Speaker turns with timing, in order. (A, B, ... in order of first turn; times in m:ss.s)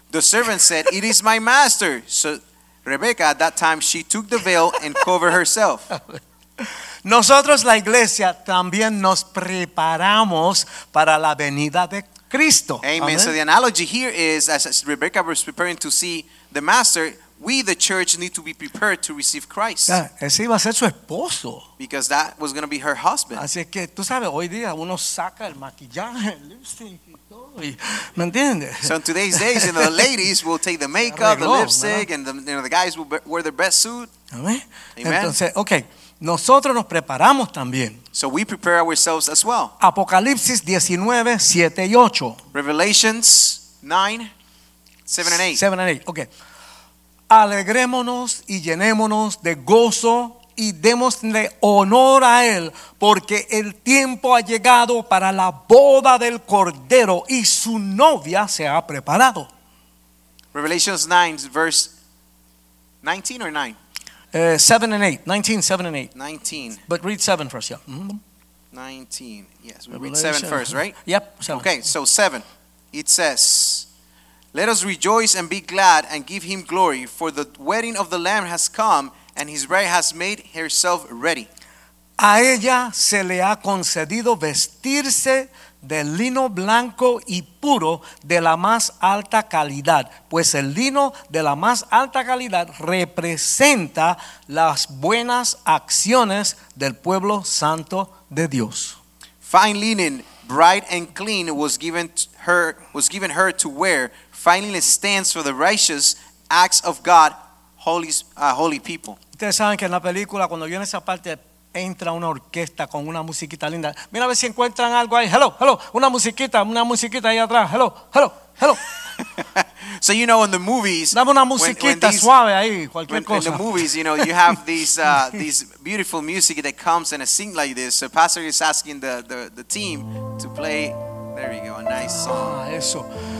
0:00.1-0:05.9 A
0:06.1-0:13.3 B
0:12.8-0:20.0 A
0:19.9-0:21.7 B
0:21.8-0:23.4 A
0:23.3-0:30.1 B
0:28.8-0:34.1 A
0:31.1-0:32.1 B
0:34.3-0:38.0 B
0:35.0-0:35.4 A
0:38.1-0:39.7 A
0:39.8-0:42.4 B
0:42.5-0:44.3 A
0:45.1-0:45.6 A
0:45.2-0:46.3 B
0:47.3-0:59.5 B
1:00.5-1:01.9 A
1:03.0-1:03.8 A
1:04.3-1:06.1 B
1:06.1-1:06.8 A
1:06.9-1:08.2 B
1:08.7-1:13.8 A
1:09.9-1:11.7 B
1:14.5-1:21.5 A
1:22.2-1:39.0 B
1:39.4-1:49.2 A
1:49.4-1:58.8 B
1:59.4-2:02.3 A
2:01.1-2:04.2 B
2:03.1-2:12.6 A
2:12.0-2:13.1 B